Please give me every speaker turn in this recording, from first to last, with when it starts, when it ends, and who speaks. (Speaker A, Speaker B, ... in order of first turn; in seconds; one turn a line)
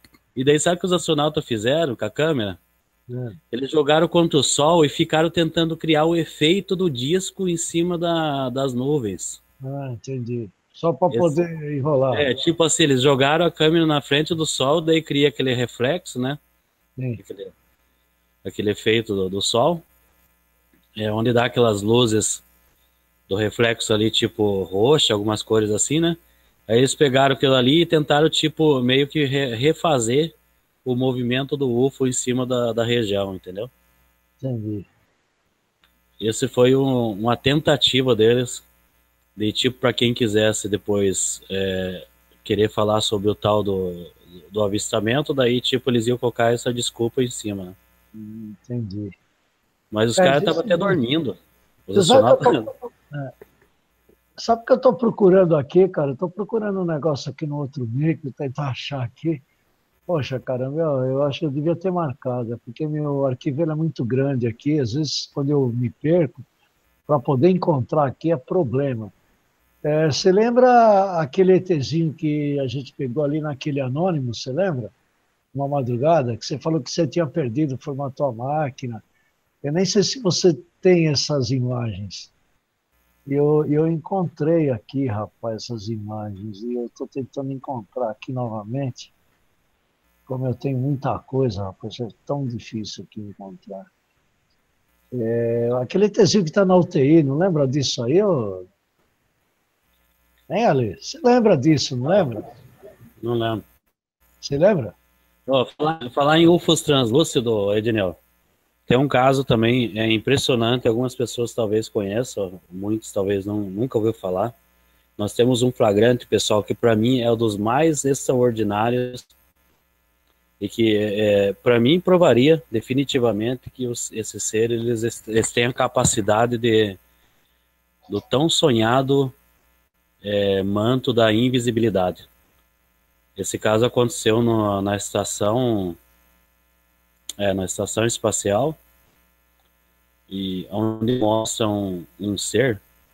Speaker A: 0.3-2.6
Speaker B: 3.1-3.4
Speaker A: 3.5-9.4
Speaker B: 9.6-12.3
Speaker A: 11.1-11.4
Speaker A: 12.1-16.4
Speaker A: 17.2-17.5
Speaker A: 18.4-19.9
Speaker A: 21.0-22.4
Speaker A: 23.3-30.3
Speaker A: 30.9-33.7
Speaker B: 34.4-34.9
Speaker A: 36.2-38.6
Speaker A: 39.4-47.8
Speaker B: 48.1-49.2
Speaker A: 49.9-52.7
Speaker B: 50.2-51.0
Speaker B: 52.0-53.3
Speaker B: 54.4-59.4
Speaker B: 60.1-66.5
Speaker B: 67.1-69.1
Speaker B: 69.8-74.9
Speaker B: 75.5-79.0
Speaker B: 79.6-82.3
Speaker B: 83.3-89.1
Speaker B: 90.3-93.9
Speaker B: 95.1-98.7
Speaker B: 100.5-102.5
Speaker A: 103.2-103.6
Speaker B: 104.4-105.0
Speaker A: 105.5-108.2
Speaker A: 108.9-114.5
Speaker A: 115.2-119.3
Speaker A: 120.6-127.0
Speaker A: 128.1-129.3
Speaker A: 130.2-132.2
Speaker A: 133.4-136.0
Speaker A: 137.4-138.8
Speaker A: 140.3-142.8